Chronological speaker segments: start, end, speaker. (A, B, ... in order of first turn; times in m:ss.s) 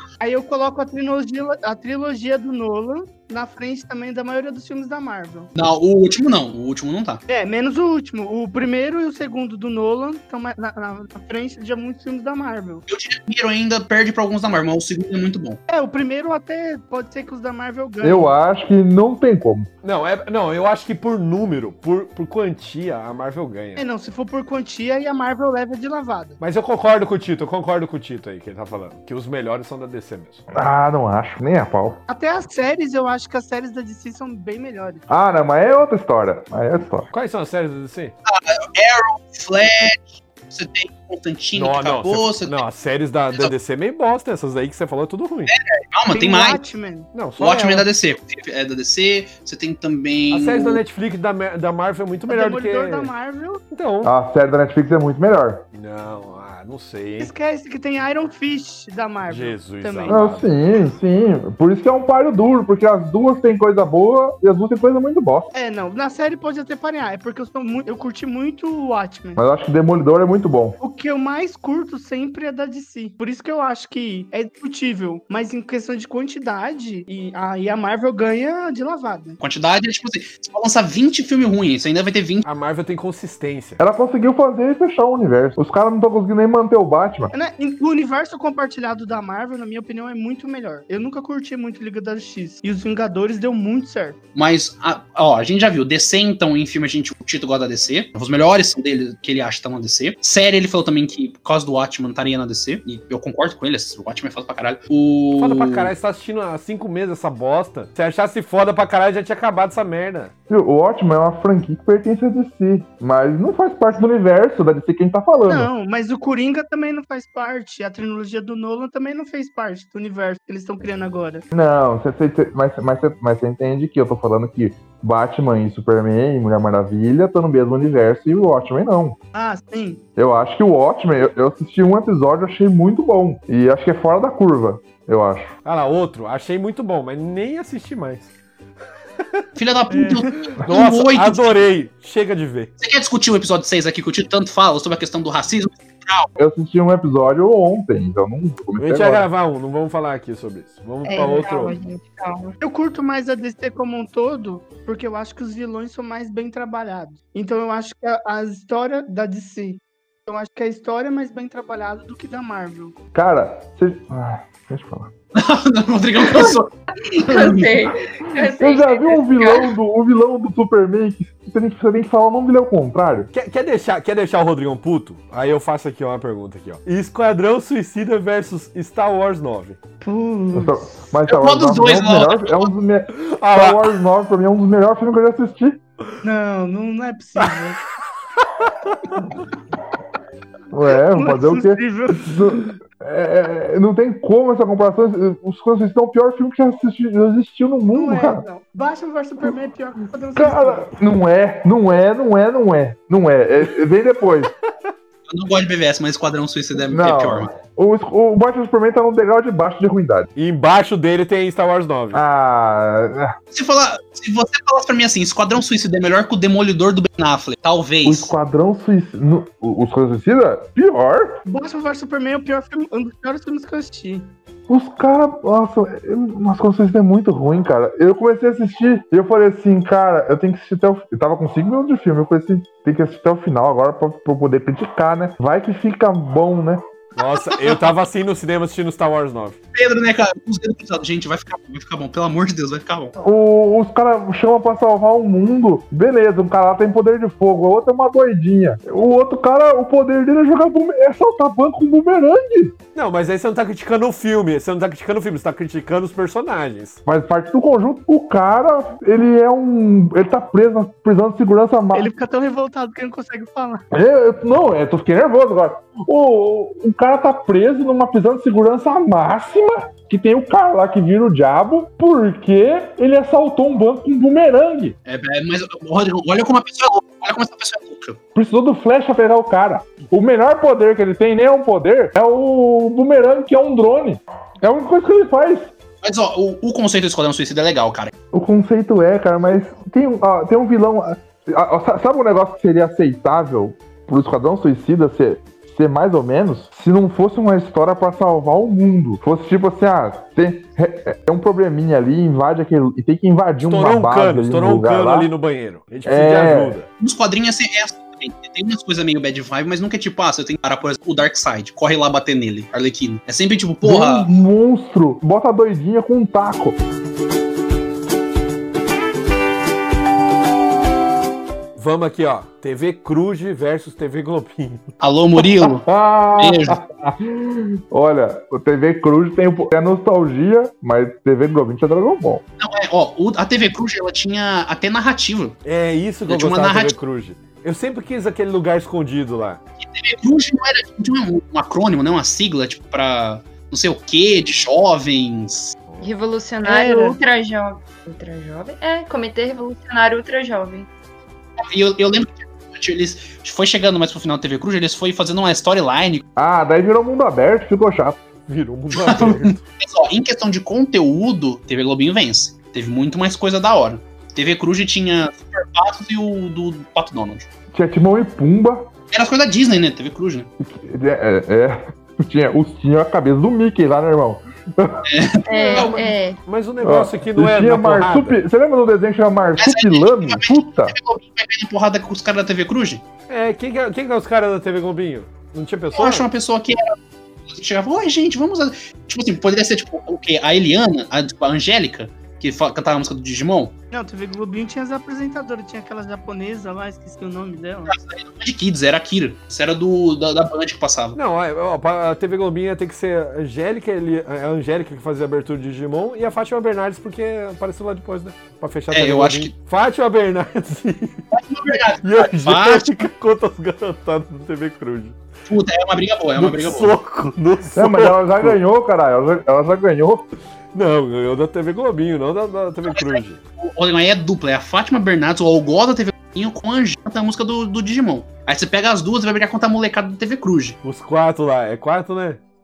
0:00.2-0:05.5 A
0:05.5-0:07.2 B
0:07.3-0:12.8 A
0:12.9-0:15.6 B
0:15.7-0:18.3 A
0:18.0-0:19.7 C
0:19.8-0:23.8 D
0:23.8-0:26.4 A
0:26.4-0:30.4 D
0:30.5-0:32.0 C
0:32.1-0:35.0 A
0:35.1-0:37.1 C
0:37.1-0:38.1 D
0:38.2-0:42.6 B
0:41.5-0:45.5 D
0:45.5-0:46.6 B
0:46.1-0:47.1 A
0:47.1-0:47.9 D
0:47.4-0:50.8 B
0:50.3-0:53.1 D
0:52.3-0:53.6 A
0:53.7-0:54.1 D
0:54.0-0:55.6 C
0:55.7-0:57.3 D
0:57.2-1:00.2 A
0:59.3-1:00.5 D
1:00.1-1:05.5 C
1:05.5-1:09.4 A
1:09.4-1:10.8 C
1:10.8-1:19.4 A
1:19.4-1:22.4 B
1:22.4-1:23.8 D
1:23.8-1:27.3 C
1:27.3-1:34.2 A
1:34.4-1:45.9 B
1:45.4-1:50.3 D
1:50.5-1:55.7 C
1:55.5-2:01.4 A
2:01.5-2:09.2 C
2:09.3-2:10.0 A
2:10.2-2:15.5 C
2:15.6-2:18.3 D
2:19.2-2:19.4 D
2:19.6-2:21.6 B
2:19.9-2:20.2 A
2:20.2-2:22.7 D
2:22.8-2:26.3 B
2:26.4-2:29.2 C
2:28.8-2:31.7 D
2:31.0-2:32.5 E
2:32.6-2:43.0 A
2:43.1-2:45.1 C
2:45.4-2:47.9 B
2:46.2-2:49.7 E
2:48.4-2:53.3 C
2:53.3-2:59.8 D
3:00.0-3:00.9 A
3:00.5-3:05.8 C
3:01.3-3:02.7 B
3:03.1-3:03.9 D
3:06.2-3:07.8 A
3:08.4-3:09.2 D
3:10.7-3:18.4 C
3:11.1-3:12.7 A
3:17.9-3:20.9 A
3:20.4-3:24.5 C
3:25.3-3:27.5 B
3:26.9-3:30.3 C
3:30.4-3:32.2 D
3:32.1-3:33.4 C
3:33.5-3:38.3 B
3:38.0-3:41.4 C
3:41.4-3:44.3 A
3:44.7-3:56.8 C
3:57.2-3:59.6 D
3:57.5-3:57.8 B
3:59.7-4:03.1 B
4:03.2-4:12.7 C
4:12.9-4:17.0 D
4:17.0-4:22.1 C
4:21.9-4:23.8 A
4:23.9-4:34.9 C
4:35.0-4:38.2 B
4:38.4-4:45.7 C
4:46.0-4:48.1 B
4:48.3-5:05.3 C
5:03.6-5:06.9 D
5:06.0-5:06.8 C
5:07.0-5:14.3 B
5:13.8-5:16.8 C
5:21.8-5:24.9 D
5:25.0-5:25.9 B
5:25.4-5:32.4 C
5:26.4-5:26.8 B
5:32.6-5:35.6 B
5:35.6-5:39.6 D
5:36.3-5:37.0 B
5:39.8-5:45.8 B
5:46.0-5:50.9 E
5:46.6-5:47.2 A
5:51.6-5:56.2 B
5:56.4-5:58.2 C
5:58.5-5:59.6 D
5:58.9-6:07.5 B
6:07.7-6:08.9 C
6:09.1-6:10.5 B
6:10.6-6:15.1 C
6:15.0-6:16.0 B
6:15.4-6:16.4 E
6:15.7-6:18.4 D
6:16.8-6:20.9 C
6:19.6-6:23.0 B
6:23.3-6:26.3 D
6:25.9-6:27.0 B
6:27.5-6:33.7 B
6:33.9-6:37.9 A
6:37.9-6:41.2 B
6:41.1-6:51.2 D
6:48.9-6:49.5 B
6:51.3-6:53.0 B
6:52.0-6:55.2 D
6:55.5-6:56.9 B
6:56.4-6:58.6 D
6:57.7-7:00.2 C
7:00.7-7:03.4 D
7:02.9-7:10.8 B
7:10.8-7:12.4 D